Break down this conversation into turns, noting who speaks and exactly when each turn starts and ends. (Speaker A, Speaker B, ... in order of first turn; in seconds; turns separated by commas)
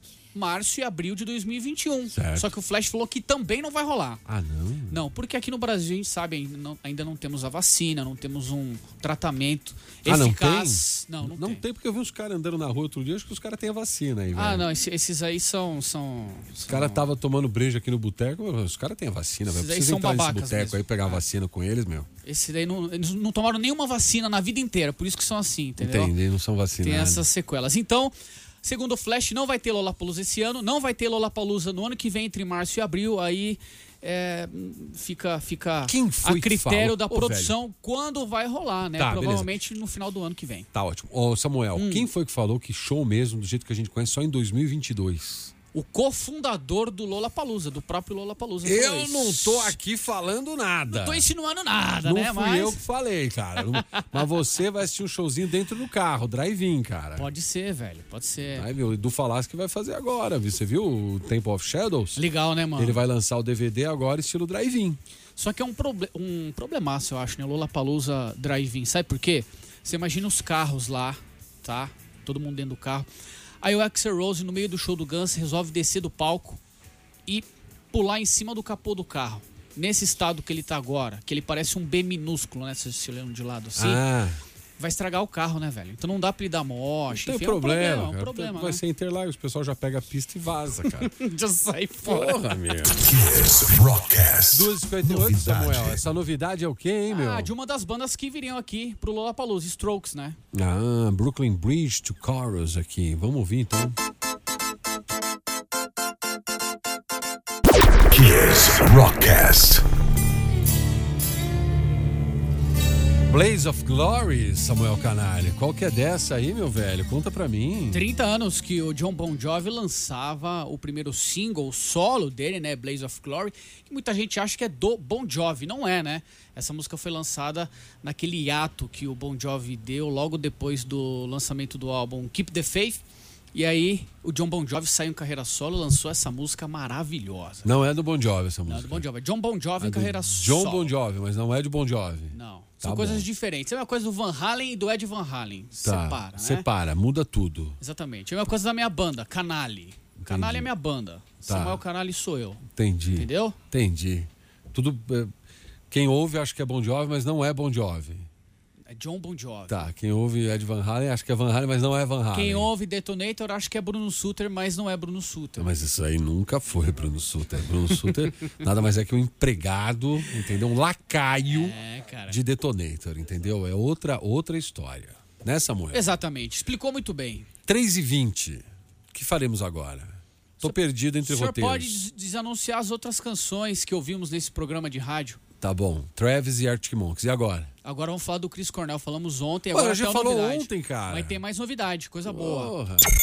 Speaker A: 0.3-4.2, Speaker B: 2.1-2.5, Speaker B: 4.2-5.0, Speaker A: 4.9-11.6, Speaker B: 10.1-14.7, Speaker A: 14.3-17.1, Speaker B: 16.7-22.1, Speaker A: 19.5-21.2, Speaker A: 22.2-26.1, Speaker B: 25.8-27.2, Speaker A: 26.8-40.7, Speaker B: 35.9-37.5, Speaker B: 39.0-39.5, Speaker B: 40.7-45.5, Speaker A: 41.8-42.1, Speaker A: 45.7-49.8, Speaker B: 48.6-51.2, Speaker A: 50.9-52.8, Speaker B: 52.0-57.3, Speaker A: 53.8-54.2, Speaker A: 57.1-58.7, Speaker B: 58.5-62.2, Speaker A: 62.1-63.0, Speaker B: 62.8-65.0, Speaker A: 65.4-73.1, Speaker A: 73.6-76.6, Speaker A: 77.2-84.0, Speaker B: 83.8-84.4, Speaker A: 84.8-88.8, Speaker B: 87.1-91.1, Speaker A: 91.0-92.4, Speaker B: 92.0-93.0, Speaker C: 93.0-96.0, Speaker B: 94.5-97.5, Speaker A: 97.1-100.4, Speaker B: 100.5-104.0, Speaker C: 108.1-109.8, Speaker B: 113.3-118.0, Speaker A: 117.9-133.0, Speaker A: 133.5-137.7, Speaker B: 137.6-139.0, Speaker A: 138.7-140.9, Speaker B: 139.8-143.2, Speaker A: 142.3-146.7, Speaker B: 145.8-147.8, Speaker A: 147.8-152.6, Speaker B: 150.2-150.7, Speaker B: 151.4-151.8, Speaker B: 152.7-155.3, Speaker A: 153.2-153.6, Speaker B: 155.9-158.3, Speaker A: 158.9-159.9, Speaker B: 159.7-162.7, Speaker A: 162.3-165.7, Speaker B: 165.6-171.8, Speaker A: 171.5-172.4, Speaker B: 172.3-176.1, Speaker A: 175.9-177.5, Speaker B: 177.7-182.0, Speaker A: 180.6-185.4, Speaker B: 185.6-187.7, Speaker A: 187.8-192.7, Speaker B: 189.7-191.4, Speaker B: 192.2-193.1